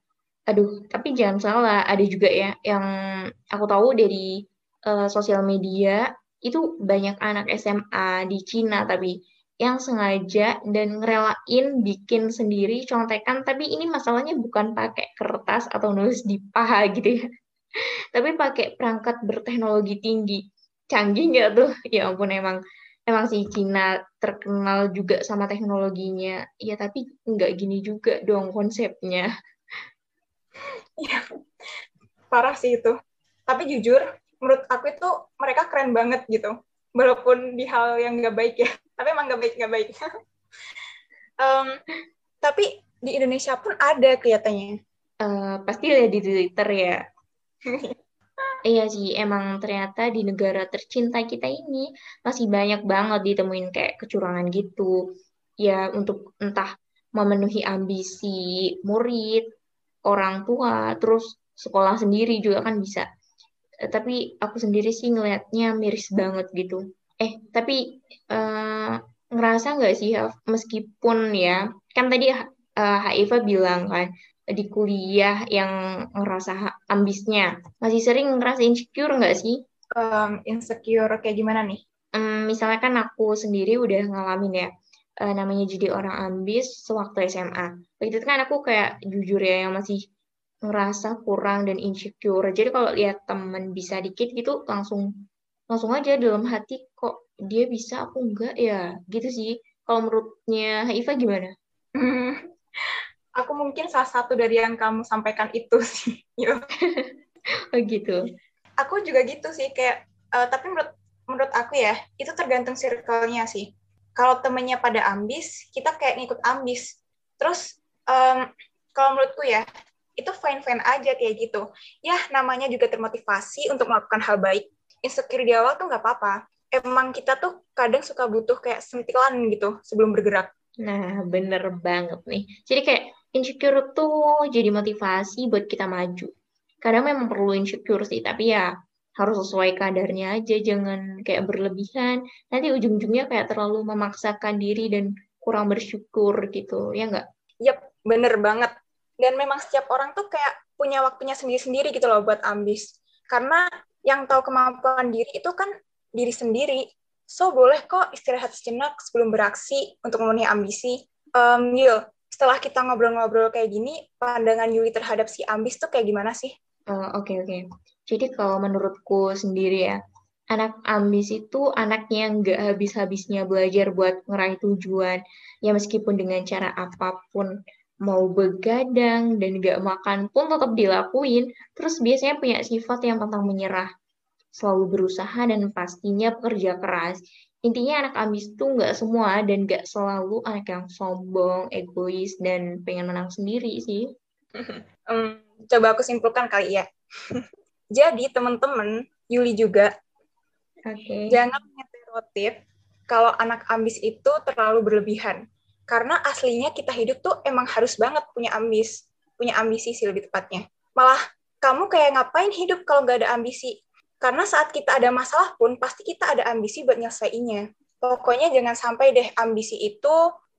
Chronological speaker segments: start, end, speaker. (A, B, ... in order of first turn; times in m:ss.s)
0:00.5-0:02.9 A
0:03.5-0:04.3 A
0:04.9-0:17.2 A
0:18.1-0:29.3 A
0:32.3-0:33.0 B
0:33.5-0:40.0 B
0:41.4-0:41.8 B
0:42.4-0:44.8 B
0:45.2-0:47.0 A
0:48.7-0:54.9 A
0:55.6-0:59.5 A
1:00.1-1:03.1 A
1:03.9-1:07.8 A
1:08.3-1:19.6 A
1:20.0-1:21.8 B
1:22.2-1:24.7 A
1:25.2-1:30.0 A
1:30.7-1:35.1 A
1:35.7-1:41.5 A
1:42.0-1:42.4 B
1:43.4-1:46.6 B
1:46.8-1:47.1 A
1:47.8-1:48.2 A
1:48.8-1:56.8 B
1:57.4-1:59.7 B
2:00.2-2:10.5 B
2:10.8-2:16.3 A
2:16.8-2:18.7 A
2:19.2-2:27.2 A
2:27.6-2:46.5 B
2:46.9-2:50.0 A
2:50.5-2:57.5 A
2:58.1-3:03.9 A
3:04.6-3:14.1 A
3:14.6-3:17.4 B
3:18.0-3:19.9 B
3:20.9-3:21.4 A
3:21.3-3:22.6 B
3:23.1-3:40.2 B